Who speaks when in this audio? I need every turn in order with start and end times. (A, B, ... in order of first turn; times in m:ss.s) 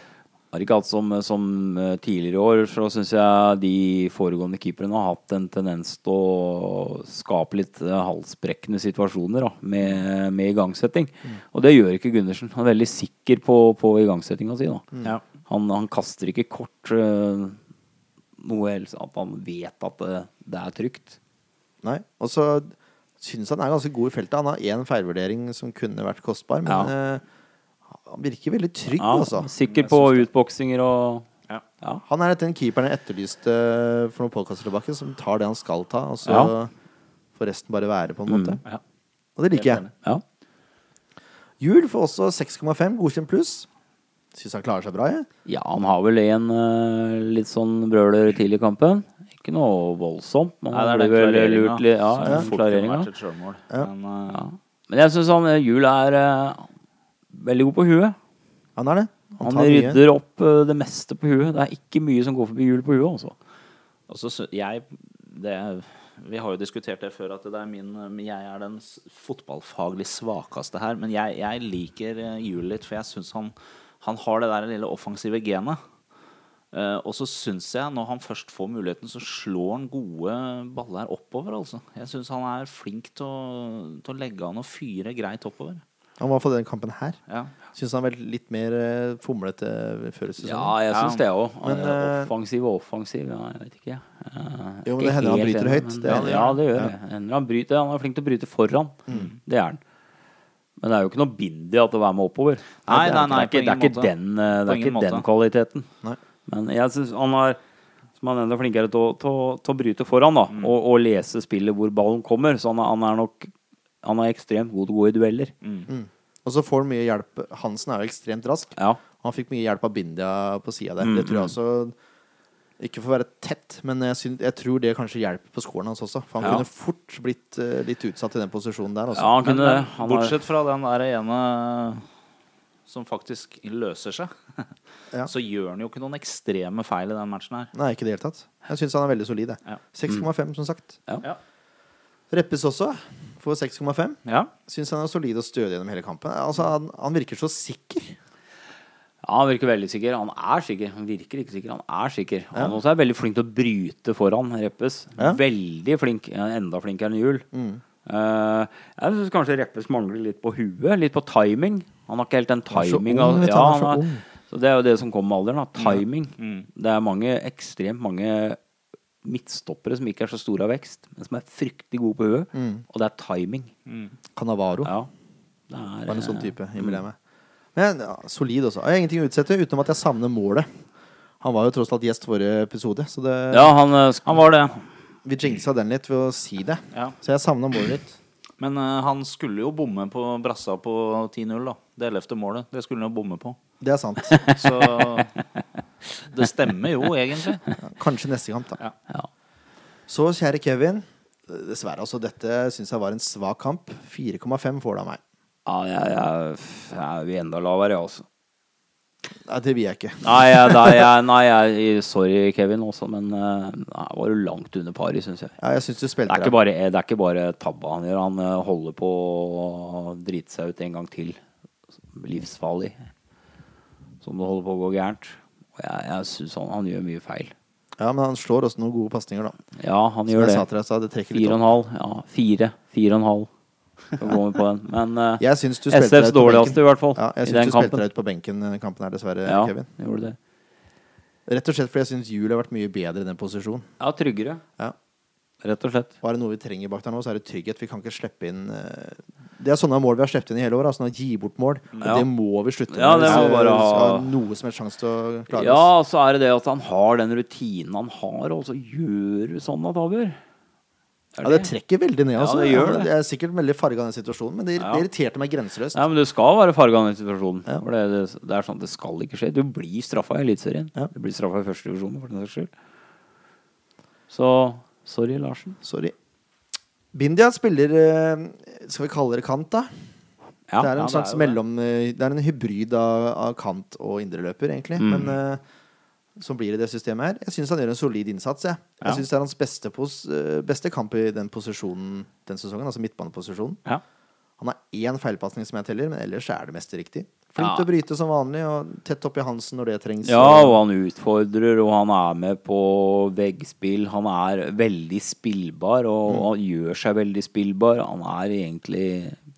0:00.5-0:14.9 A
0:15.5-0:17.6 A
0:18.4-0:21.2 A
0:21.8-0:27.2 B
0:26.7-0:26.9 A
0:28.0-0:29.5 B
0:29.0-0:31.3 A
0:29.6-0:30.3 C
0:32.0-0:36.7 B
0:37.4-0:38.6 B
0:38.3-0:38.6 A
0:39.4-0:39.8 B
0:39.5-0:39.9 C
0:41.6-0:43.7 B
0:44.3-0:45.3 B
0:45.4-0:53.1 A
0:50.7-0:54.5 C
0:54.3-0:56.7 A
0:57.3-0:58.2 A
0:58.8-1:00.0 B
0:59.4-1:03.4 A
1:04.1-1:15.8 C
1:16.7-1:25.8 C
1:26.2-1:27.2 B
1:27.3-1:27.5 C
1:27.7-1:30.7 B
1:30.4-1:39.8 A
1:30.9-1:31.2 C
1:31.6-1:32.3 B
1:34.8-1:36.9 B
1:36.0-1:36.6 C
1:39.1-1:39.3 C
1:40.8-1:45.9 A
1:42.9-1:44.1 C
1:42.9-1:43.3 B
1:44.6-1:45.2 C
1:46.5-1:47.6 A
1:48.2-1:53.5 A
1:54.0-1:55.5 A
1:55.6-1:55.9 C
1:55.9-2:01.9 B
2:01.0-2:01.5 A
2:02.8-2:09.4 B
2:09.1-2:10.4 A
2:09.4-2:12.0 C
2:12.9-2:14.7 C
2:15.2-2:17.7 C
2:17.7-2:21.0 B
2:22.3-2:28.2 B
2:24.2-2:24.5 C
2:29.2-2:37.4 A
2:32.5-2:32.8 B
2:37.5-2:37.8 B
2:38.0-2:48.6 A
2:42.7-2:44.2 B
2:45.8-2:46.7 C
2:49.2-2:53.7 A
2:52.5-2:52.8 B
2:53.8-2:54.1 C
2:54.3-2:54.9 B
2:55.7-2:57.0 A
2:56.1-2:57.2 B
2:57.7-3:00.7 B
3:01.4-3:03.7 B
3:03.5-3:04.8 A
3:04.2-3:04.7 C
3:05.2-3:08.2 B
3:08.6-3:13.6 C
3:13.8-3:14.4 B
3:14.3-3:15.2 A
3:14.5-3:15.3 C
3:16.3-3:17.6 C
3:17.8-3:18.8 B
3:20.1-3:25.2 B
3:25.6-3:28.2 A
3:29.4-3:31.1 B
3:30.2-3:35.6 A
3:35.6-3:36.6 B
3:36.2-3:41.4 A
3:42.1-3:43.0 A
3:44.2-3:47.5 A
3:48.0-3:49.6 B
3:49.8-3:50.6 A
3:50.3-3:51.7 B
3:51.3-3:53.5 A
3:54.1-3:58.0 A
3:55.4-3:59.9 B
3:59.4-4:00.4 A
4:01.5-4:03.9 B
4:04.0-4:04.6 A
4:05.6-4:06.1 A
4:06.2-4:15.9 B
4:12.0-4:12.3 A
4:12.9-4:14.3 A
4:15.5-4:20.4 A
4:21.4-4:21.7 A
4:21.4-4:26.0 B
4:22.4-4:23.1 A
4:24.8-4:25.0 A
4:25.9-4:32.7 A
4:34.3-4:35.8 A
4:35.8-4:36.1 B
4:37.1-4:39.9 B
4:40.8-4:45.6 B
4:40.9-4:41.6 C
4:45.0-4:45.3 A
4:46.4-4:53.8 B
4:54.6-5:00.8 B
4:57.6-4:57.9 A
5:00.2-5:09.4 A